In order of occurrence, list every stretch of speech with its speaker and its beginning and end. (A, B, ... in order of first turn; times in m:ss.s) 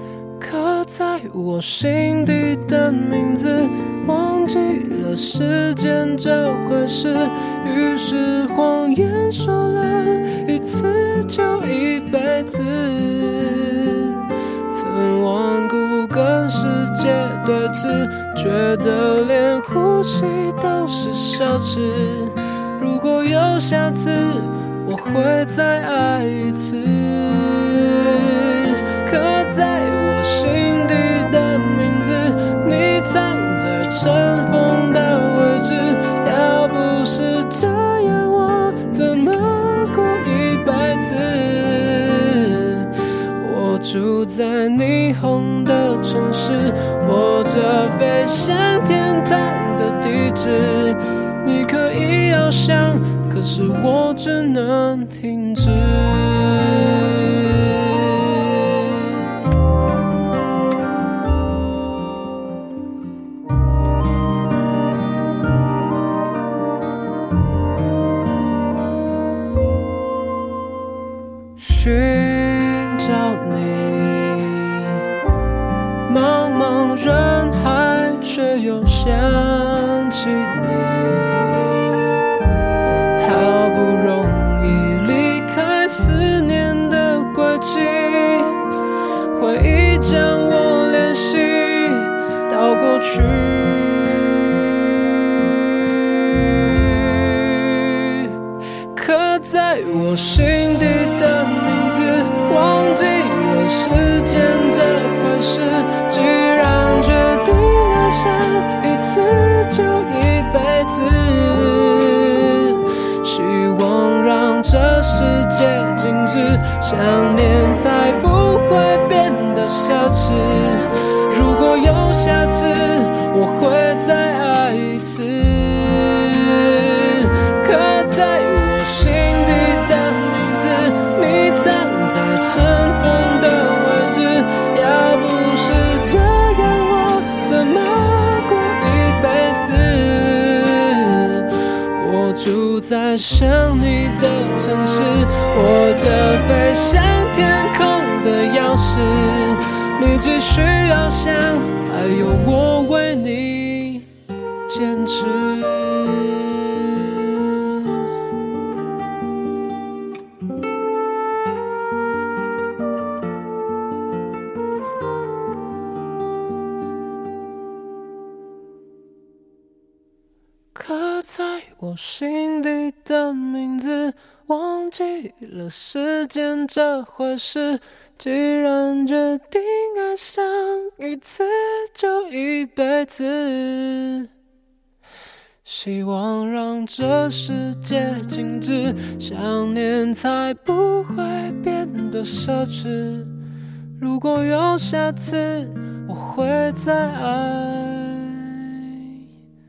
0:00.4-0:59.3 A
1:11.6-1:15.0 A
1:16.1-1:22.2 A
1:23.2-1:28.6 A
1:29.3-1:38.4 A
1:38.9-2:34.1 A
2:34.7-2:38.1 A
2:50.7-3:04.3 A
3:05.6-3:13.3 A
3:14.0-3:19.2 A